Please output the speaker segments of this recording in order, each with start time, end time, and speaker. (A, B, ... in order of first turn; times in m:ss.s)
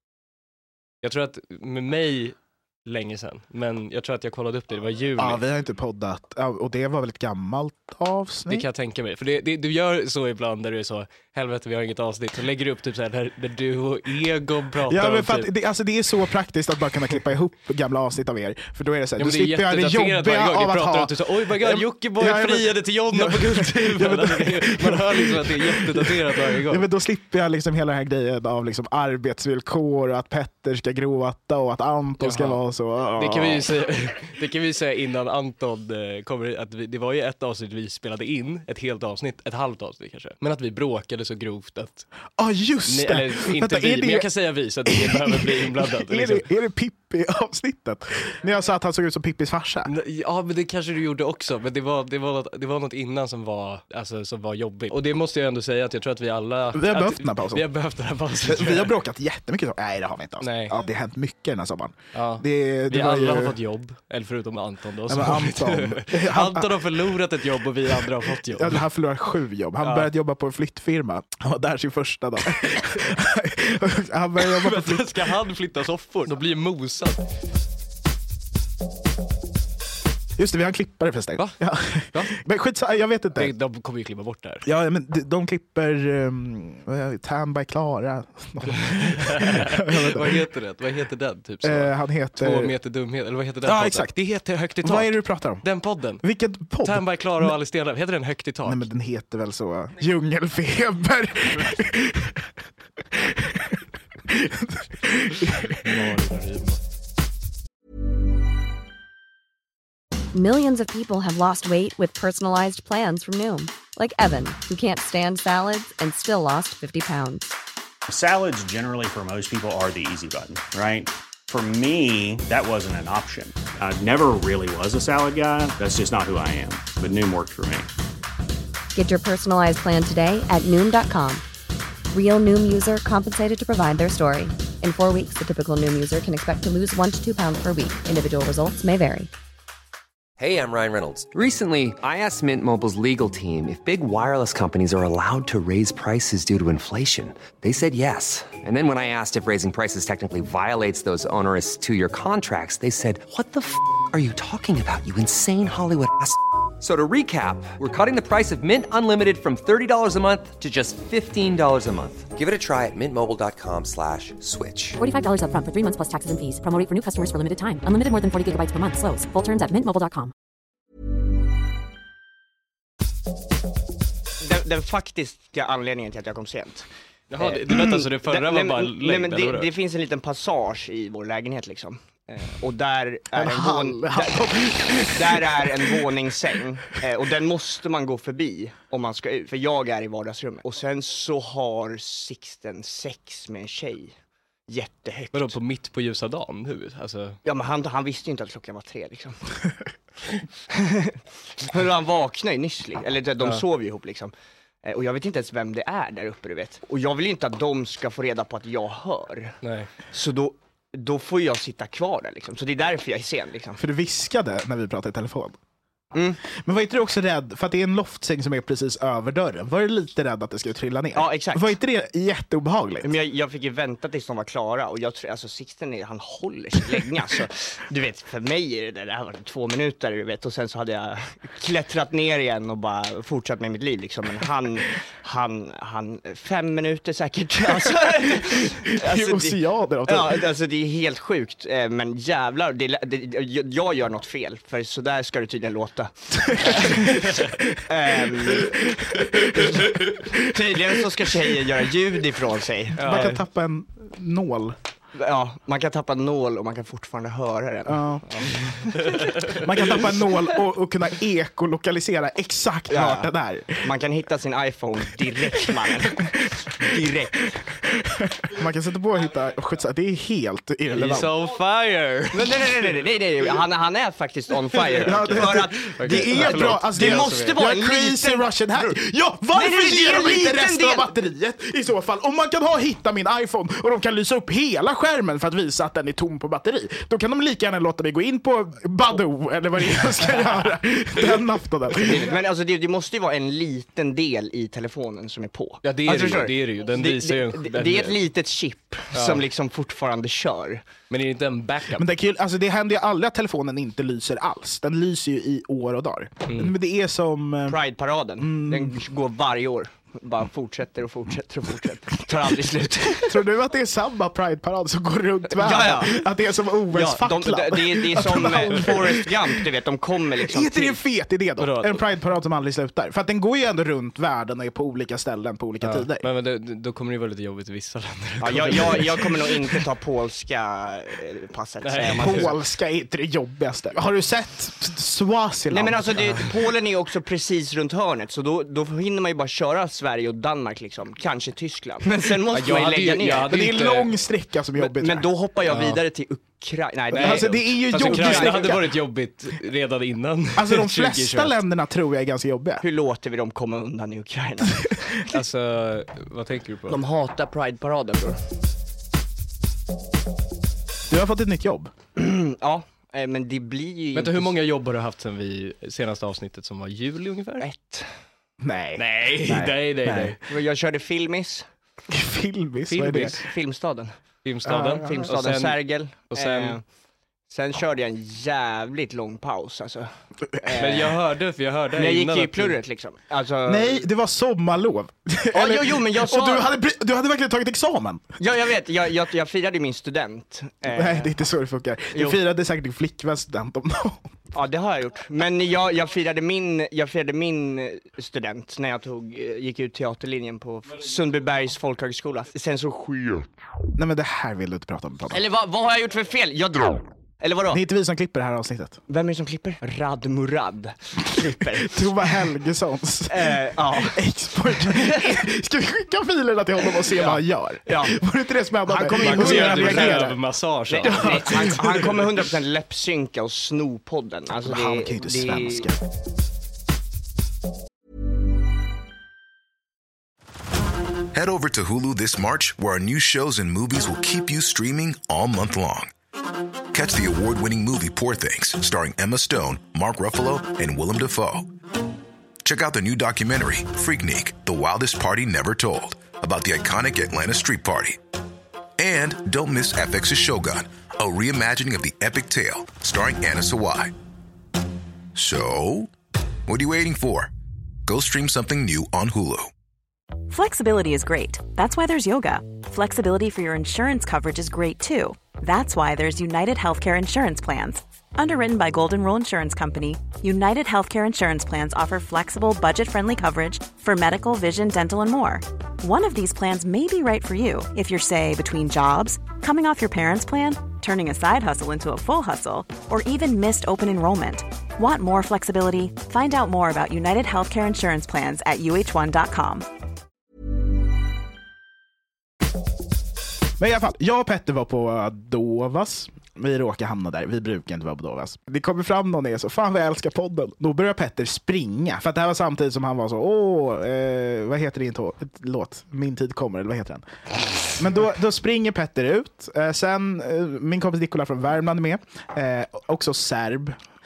0:01.0-0:05.4 A
0:05.2-0:08.6 B
0:08.5-0:15.5 A
0:14.9-0:33.7 B
0:19.2-0:26.8 A
0:32.2-0:32.6 A
0:33.1-0:42.1 A
0:42.4-0:44.3 B
0:42.9-0:46.5 A
0:44.8-0:49.9 B
0:49.8-0:58.9 A
0:56.7-0:57.6 B
0:58.4-1:03.6 B
1:00.4-1:00.8 A
1:02.1-1:08.8 A
1:05.1-1:06.9 B
1:07.9-1:15.3 B
1:09.8-1:10.1 A
1:14.4-1:17.2 A
1:20.4-1:23.5 B
1:22.1-1:22.4 A
1:23.4-1:24.6 A
1:24.6-1:30.4 B
1:28.7-1:36.2 A
1:31.6-1:32.7 B
1:33.6-1:34.2 B
1:34.8-1:35.6 B
1:36.2-1:37.6 B
1:36.8-1:38.9 A
1:38.6-1:42.5 B
1:43.0-1:46.1 B
1:45.6-1:46.8 A
1:50.3-1:57.6 C
1:58.1-2:07.9 D
2:08.9-2:11.4 C
2:12.1-2:19.3 C
2:20.4-2:45.0 E
2:45.0-2:50.3 F
2:54.4-3:14.1 G
2:57.3-2:59.7 A
3:03.3-3:05.7 B
3:14.7-3:15.6 G
3:15.3-3:17.4 A
3:17.4-3:19.4 G
3:20.7-3:29.6 G
3:29.6-3:29.9 A
3:30.1-3:33.8 G
3:33.8-3:35.6 B
3:36.1-3:36.4 G
3:36.4-3:43.1 B
3:41.1-3:41.8 G
3:43.0-4:08.8 G
3:58.0-4:00.5 B
4:06.4-4:07.8 B
4:08.5-4:10.7 B
4:09.4-4:10.0 A
4:09.5-4:13.3 G
4:13.0-4:13.4 A
4:13.0-4:14.8 B
4:15.1-4:19.3 G
4:17.9-4:18.6 B
4:19.0-4:19.6 A
4:19.4-4:23.9 B
4:22.9-4:23.3 G
4:23.8-4:27.6 G
4:27.8-4:31.3 B
4:30.9-4:33.0 A
4:32.3-4:39.0 G
4:34.8-4:37.6 A
4:35.0-4:52.3 B
4:39.5-4:41.1 G
4:52.0-5:00.8 G
4:55.8-4:58.2 A
4:59.1-4:59.4 A
5:01.1-5:02.1 A
5:02.0-5:07.8 B
5:06.5-5:06.7 A
5:07.7-5:13.4 G
5:08.4-5:09.0 B
5:13.3-5:19.6 B
5:15.5-5:16.2 G
5:16.9-5:21.0 G
5:20.5-5:26.2 B
5:21.6-5:22.0 A
5:25.8-5:29.8 A
5:28.4-5:32.5 G
5:31.8-5:32.5 A
5:32.2-5:36.1 B
5:35.7-5:43.5 G
5:42.5-5:44.2 A
5:43.5-5:45.3 B
5:44.8-5:48.8 G
5:45.7-5:46.0 A
5:47.1-5:48.9 B
5:47.1-5:51.6 A
5:50.6-5:52.8 B
5:52.8-5:55.2 G
5:55.3-5:57.0 A
5:56.9-5:58.4 G
6:01.1-6:01.9 B
6:02.2-6:04.5 G
6:04.1-6:07.6 A
6:07.6-6:08.1 G
6:08.6-6:10.4 B
6:09.0-6:10.4 A
6:10.5-6:11.6 G
6:12.1-6:13.4 B
6:12.9-6:13.4 A
6:13.3-6:14.1 G
6:14.4-6:16.8 A
6:14.6-6:15.3 B
6:15.0-6:16.8 G
6:17.5-6:21.2 G
6:20.8-6:22.8 A
6:21.9-6:24.0 G
6:23.6-6:28.4 B
6:25.5-6:26.7 G
6:28.4-6:31.3 G
6:30.9-6:34.2 B
6:32.1-6:32.4 G
6:34.5-6:43.5 G
6:44.0-6:45.4 B
6:45.3-6:47.8 G
6:47.7-6:49.0 B
6:49.1-6:52.2 G
6:51.8-7:00.4 B
6:53.3-6:54.2 G
6:54.8-6:55.2 G
6:57.1-6:58.2 G
6:58.8-7:00.3 G
6:59.2-7:02.2 A
7:00.9-7:05.9 G
7:01.0-7:02.1 B
7:04.6-7:06.0 B
7:11.3-7:16.1 H
7:16.9-7:21.7 H
7:22.6-7:28.2 H
7:29.0-7:34.1 H
7:35.3-7:36.1 H
7:36.6-7:37.5 H
7:38.0-7:39.7 H
7:40.5-8:09.9 I
8:13.8-8:27.2 B
8:28.0-8:34.0 B